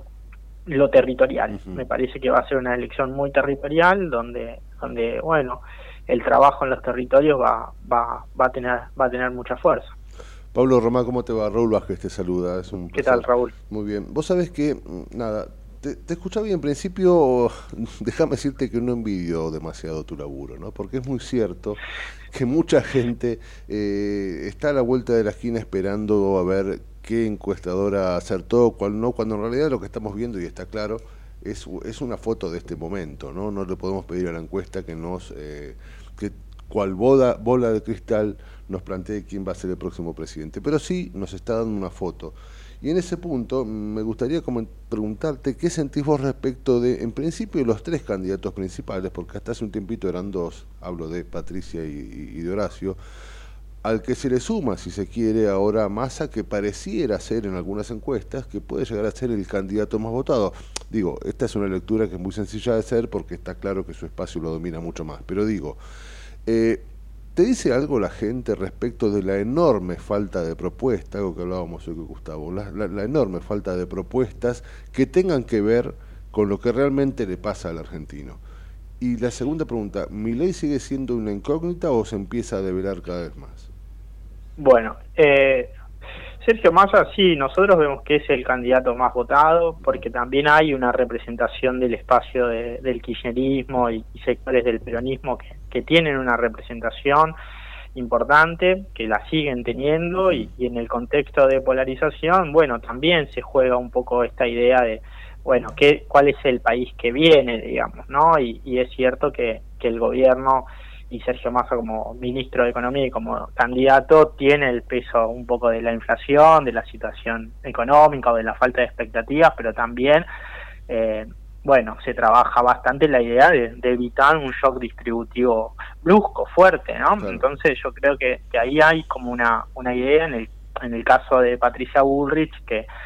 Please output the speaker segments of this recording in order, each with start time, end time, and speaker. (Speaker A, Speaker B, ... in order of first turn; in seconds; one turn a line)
Speaker A: 0.7-9.9
Speaker B: 1.5-1.9
Speaker B: 10.5-21.8
Speaker A: 12.9-13.5
Speaker B: 22.3-53.0
Speaker B: 53.8-65.8
Speaker B: 66.5-78.4
Speaker B: 79.0-83.7
Speaker A: 84.6-85.7
Speaker A: 86.4-97.3
Speaker A: 97.9-120.3
Speaker A: 120.9-132.9
Speaker B: 127.2-127.5